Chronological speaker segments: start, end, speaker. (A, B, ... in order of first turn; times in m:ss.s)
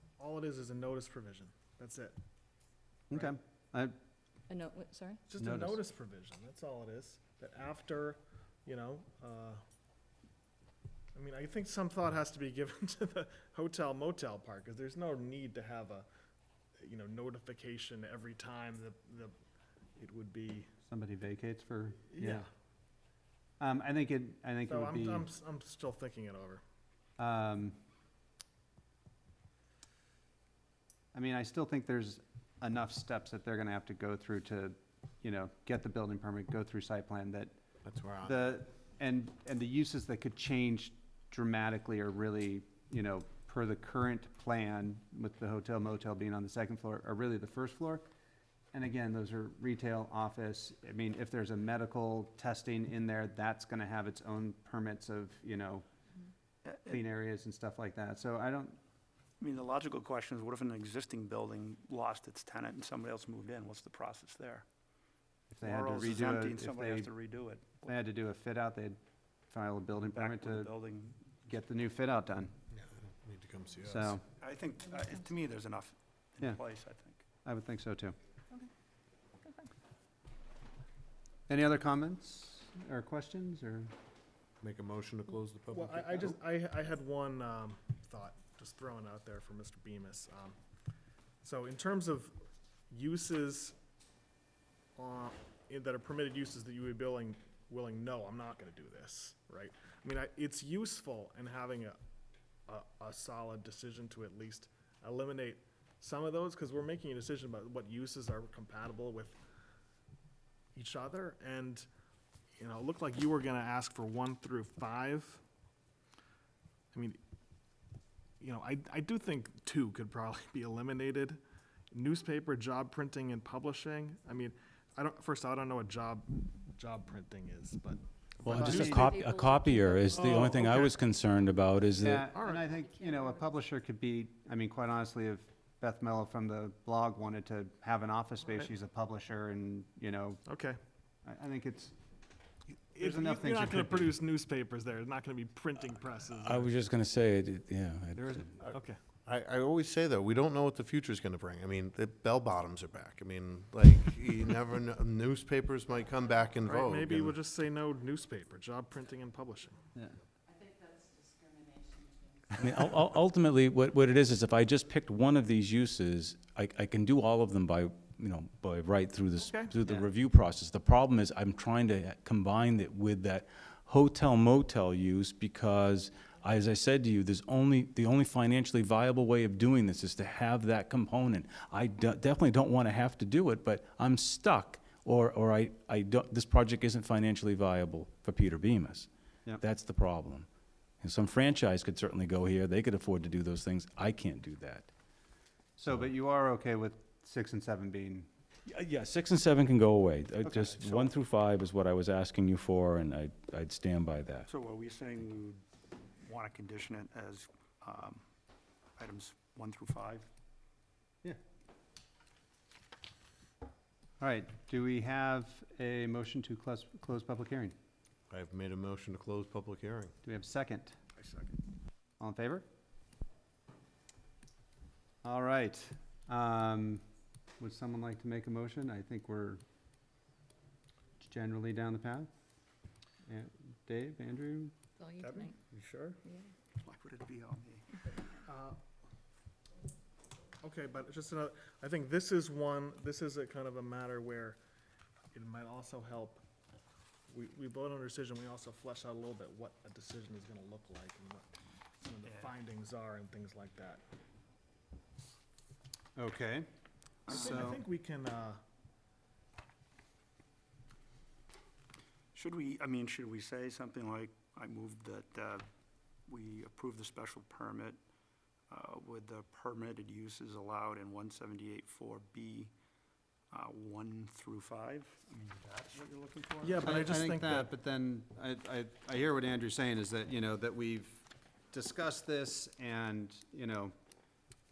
0:00.2-0:02.2 A
0:03.1-0:03.9 B
0:04.5-0:05.2 C
0:05.3-0:09.6 A
0:05.4-0:05.8 B
0:11.1-0:16.0 A
0:16.8-0:19.3 A
0:20.0-0:20.7 A
0:20.8-0:22.4 B
0:22.1-0:22.4 A
0:23.6-0:25.3 B
0:24.7-0:26.6 A
0:27.2-0:27.8 B
0:31.1-0:37.5 B
0:37.8-0:38.4 D
0:38.2-0:48.0 B
0:48.7-0:55.8 B
0:56.6-0:57.0 E
0:56.8-0:58.8 B
0:59.4-1:04.6 E
1:05.5-1:07.1 B
1:05.6-1:07.9 E
1:07.8-1:09.0 B
1:09.5-1:10.7 B
1:10.1-1:11.2 E
1:11.4-1:12.5 B
1:13.3-1:14.2 D
1:13.8-1:14.2 B
1:14.4-1:17.2 E
1:17.4-1:18.2 B
1:19.4-1:19.7 C
1:21.5-1:23.9 B
1:24.6-1:26.4 D
1:25.7-1:30.6 A
1:31.4-1:32.3 A
1:32.9-1:33.7 A
1:35.0-1:42.0 A
1:42.7-1:49.4 A
1:50.7-1:51.9 A
1:52.6-1:55.4 A
1:56.9-1:57.2 A
1:58.4-2:01.4 A
2:01.9-2:08.9 A
2:08.4-2:12.3 F
2:08.5-2:09.1 B
2:08.6-2:10.6 C
2:10.1-2:11.0 A
2:12.0-2:20.4 B
2:12.2-2:12.6 A
2:12.6-2:13.4 C
2:20.5-2:20.8 A
2:21.2-2:21.9 B
2:22.9-2:24.2 B
2:22.9-2:26.7 A
2:26.4-2:28.6 F
2:28.3-2:37.4 D
2:28.7-2:29.0 A
2:36.6-2:39.8 A
2:42.6-3:09.1 F
2:49.4-2:49.7 A
3:09.6-3:10.5 F
3:11.0-3:14.9 F
3:15.8-3:18.3 B
3:18.7-3:24.5 F
3:20.4-3:21.1 B
3:24.5-3:25.6 E
3:26.2-3:28.2 E
3:29.0-3:30.3 E
3:34.2-3:37.7 B
3:38.3-3:40.1 D
3:40.2-3:41.0 B
3:41.2-3:41.6 E
3:42.2-3:42.6 B
3:45.2-3:47.0 B
3:47.6-3:49.6 B
3:51.2-3:52.3 B
3:53.2-3:54.7 B
3:55.0-3:55.5 C
3:55.2-3:56.2 E
3:56.2-3:56.5 C
3:56.8-3:58.1 E
3:58.4-3:58.8 A
4:00.6-4:04.6 A
4:05.3-4:06.4 A
4:07.3-4:14.0 A
4:12.2-4:12.5 E
4:16.2-4:16.7 B
4:17.3-4:17.8 B
4:17.3-4:17.6 E
4:17.3-4:18.6 A
4:22.3-4:25.6 E
4:26.3-4:28.0 E
4:28.7-4:32.7 E
4:33.5-4:36.9 E
4:36.6-4:37.7 A
4:36.8-4:43.9 B